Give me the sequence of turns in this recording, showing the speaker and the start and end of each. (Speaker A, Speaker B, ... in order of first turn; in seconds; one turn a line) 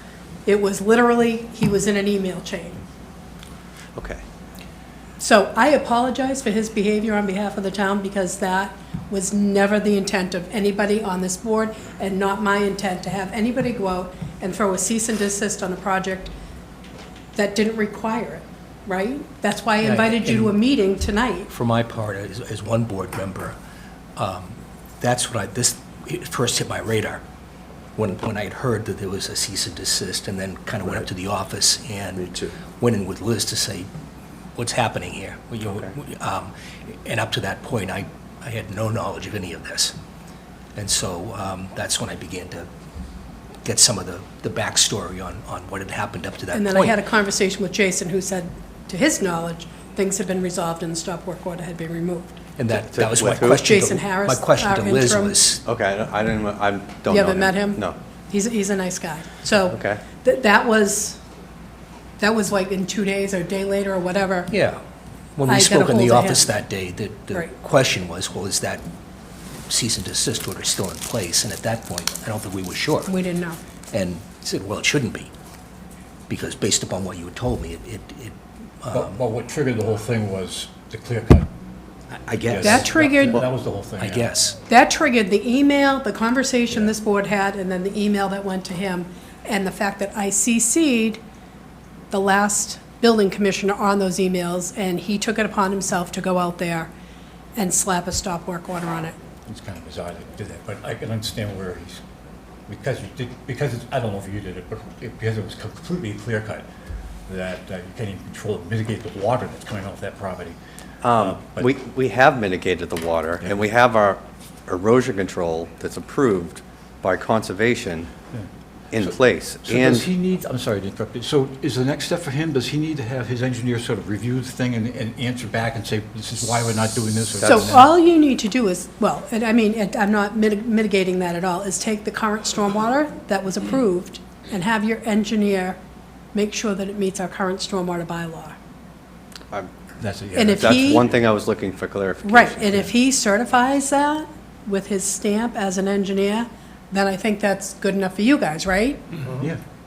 Speaker A: 0.5-2.8
Speaker B: 4.0-4.2
Speaker A: 5.2-16.3
Speaker A: 17.4-21.5
Speaker C: 19.8-20.6
Speaker C: 21.5-23.6
Speaker C: 24.2-27.2
Speaker C: 28.0-33.9
Speaker C: 34.5-40.0
Speaker C: 40.8-42.7
Speaker C: 43.6-47.0
Speaker A: 46.5-52.4
Speaker C: 52.6-55.6
Speaker B: 52.7-53.6
Speaker A: 53.6-55.4
Speaker B: 55.6-58.0
Speaker A: 57.1-61.2
Speaker B: 59.7-60.0
Speaker A: 62.2-64.5
Speaker C: 64.5-64.8
Speaker C: 65.4-68.8
Speaker A: 65.5-66.5
Speaker C: 69.7-73.1
Speaker A: 73.1-73.6
Speaker C: 73.9-75.3
Speaker C: 76.3-79.2
Speaker D: 78.9-81.5
Speaker C: 82.1-82.9
Speaker D: 82.4-84.3
Speaker A: 82.6-83.4
Speaker C: 84.0-84.6
Speaker A: 84.7-91.2
Speaker A: 92.1-96.9
Speaker A: 97.6-99.2
Speaker D: 99.5-102.0
Speaker D: 102.7-106.7
Speaker D: 107.3-110.6
Speaker B: 111.0-118.1
Speaker D: 111.1-111.7
Speaker D: 118.3-127.9
Speaker B: 118.9-120.1
Speaker A: 127.4-135.8
Speaker A: 136.3-138.6
Speaker D: 140.0-141.1
Speaker A: 140.3-141.1
Speaker B: 140.6-142.9
Speaker A: 142.2-149.0